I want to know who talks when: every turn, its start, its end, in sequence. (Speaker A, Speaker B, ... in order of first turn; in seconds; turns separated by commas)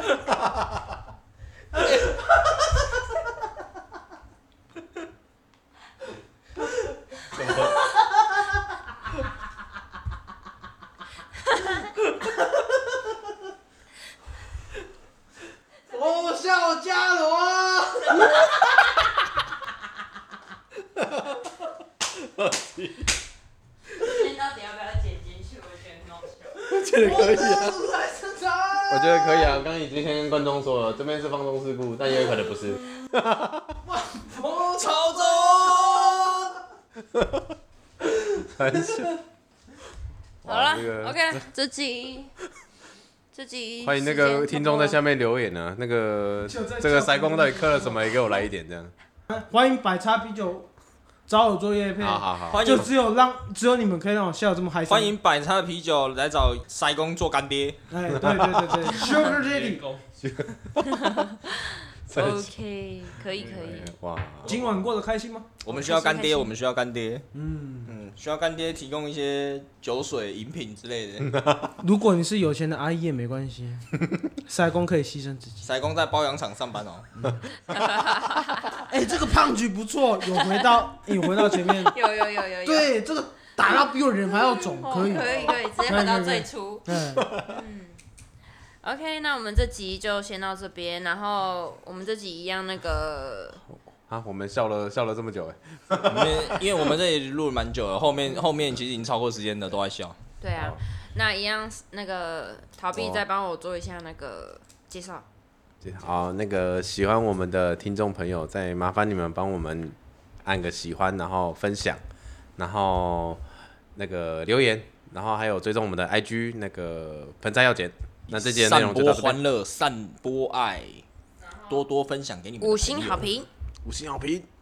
Speaker A: 7.3-7.8, Speaker B: 16.1-18.1, Speaker C: 18.0-18.6, Speaker A: 20.9-21.4, Speaker A: 22.1-23.2, Speaker C: 24.0-26.5, Speaker A: 26.6-27.7, Speaker B: 26.6-29.5, Speaker A: 28.9-33.7, Speaker B: 34.1-36.4, Speaker D: 34.3-36.2, Speaker A: 37.1-37.5, Speaker A: 38.5-39.1, Speaker B: 38.6-39.1, Speaker A: 40.4-41.5, Speaker C: 40.4-42.3, Speaker C: 43.3-45.0, Speaker A: 43.8-48.9, Speaker B: 46.5-48.0, Speaker B: 49.3-50.7, Speaker B: 51.3-55.1, Speaker A: 52.0-52.7, Speaker E: 52.5-52.9, Speaker E: 54.9-57.8, Speaker B: 57.9-59.8, Speaker A: 58.1-58.9, Speaker D: 59.0-60.1, Speaker A: 60.2-61.2, Speaker C: 60.8-63.9, Speaker A: 62.1-62.5, Speaker A: 63.4-64.6, Speaker D: 63.4-63.7, Speaker B: 64.4-65.5, Speaker E: 65.6-67.3, Speaker C: 65.7-66.5, Speaker B: 67.3-67.9, Speaker E: 67.8-71.3, Speaker A: 71.2-71.7, Speaker B: 71.8-73.8, Speaker B: 74.5-75.7, Speaker E: 75.6-77.1, Speaker C: 77.7-78.8, Speaker B: 78.9-82.0, Speaker C: 81.4-82.9, Speaker B: 82.6-87.3, Speaker C: 84.3-88.0, Speaker A: 87.2-87.6, Speaker C: 88.8-93.6, Speaker A: 94.1-96.9, Speaker E: 96.0-100.2, Speaker C: 100.4-105.2, Speaker A: 100.5-100.8, Speaker A: 102.9-103.2, Speaker A: 105.8-112.0, Speaker A: 112.6-113.4, Speaker A: 113.9-119.4, Speaker E: 118.3-121.0, Speaker C: 121.5-121.8, Speaker E: 121.7-123.2, Speaker C: 122.6-123.5, Speaker A: 123.8-124.5